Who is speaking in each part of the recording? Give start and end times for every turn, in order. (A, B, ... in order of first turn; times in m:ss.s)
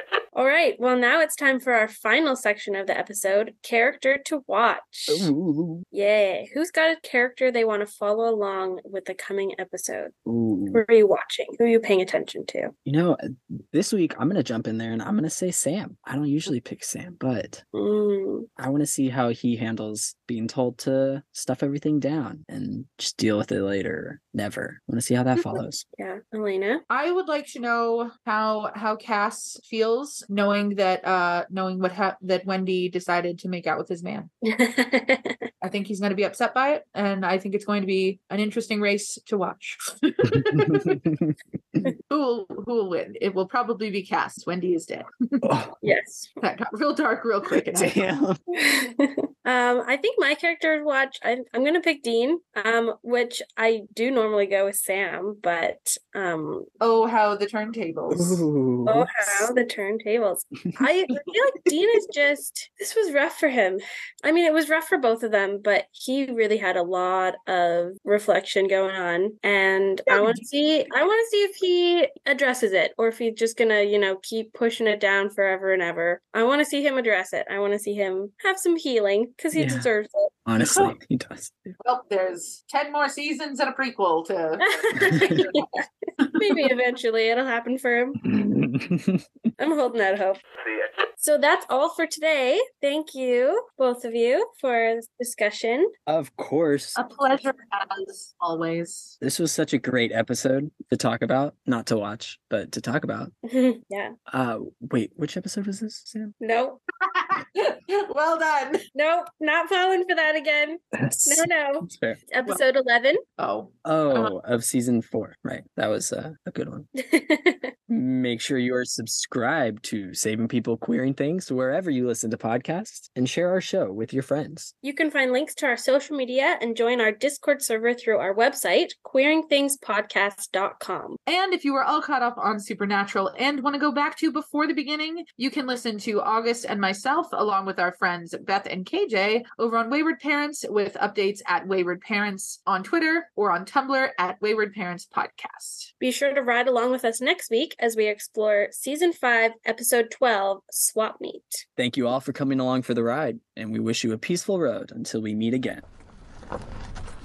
0:00.3-0:05.3 A
0:05.1-0:05.8 B
0:05.9-0:10.1 A
0:10.2-0:10.8 B
0:10.7-0:12.7 A
0:12.8-0:17.6 B
0:17.7-0:18.5 A
0:18.6-0:25.8 B
0:25.5-0:26.8 A
0:26.9-0:34.3 C
0:34.4-0:35.4 A
0:35.6-0:41.0 C
0:40.4-0:41.9 B
0:42.1-0:45.5 C
0:45.4-0:45.8 B
0:45.8-0:46.3 A
0:46.4-0:48.0 C
0:47.7-0:48.4 B
0:48.6-0:56.7 A
0:56.8-0:58.4 C
0:58.1-0:59.5 B
0:58.9-1:20.3 A
1:10.1-1:10.4 C
1:19.6-1:19.9 B
1:20.4-1:21.7 B
1:20.6-1:20.9 C
1:21.8-1:25.7 C
1:24.6-1:28.3 A
1:25.1-1:25.4 B
1:28.2-1:29.2 B
1:29.6-1:30.4 A
1:31.2-1:35.9 A
1:36.1-1:37.0 B
1:37.0-1:39.2 C
1:39.2-1:43.3 B
1:43.4-1:44.1 A
1:44.3-1:46.3 B
1:46.4-1:46.8 A
1:47.0-1:48.8 C
1:48.9-1:53.2 A
1:50.9-1:52.2 B
1:53.4-1:54.3 C
1:53.8-1:56.9 B
1:57.0-1:57.7 A
1:57.9-2:04.7 B
2:04.8-2:11.2 A
2:11.3-2:25.9 C
2:26.0-2:31.6 A
2:31.8-2:35.8 B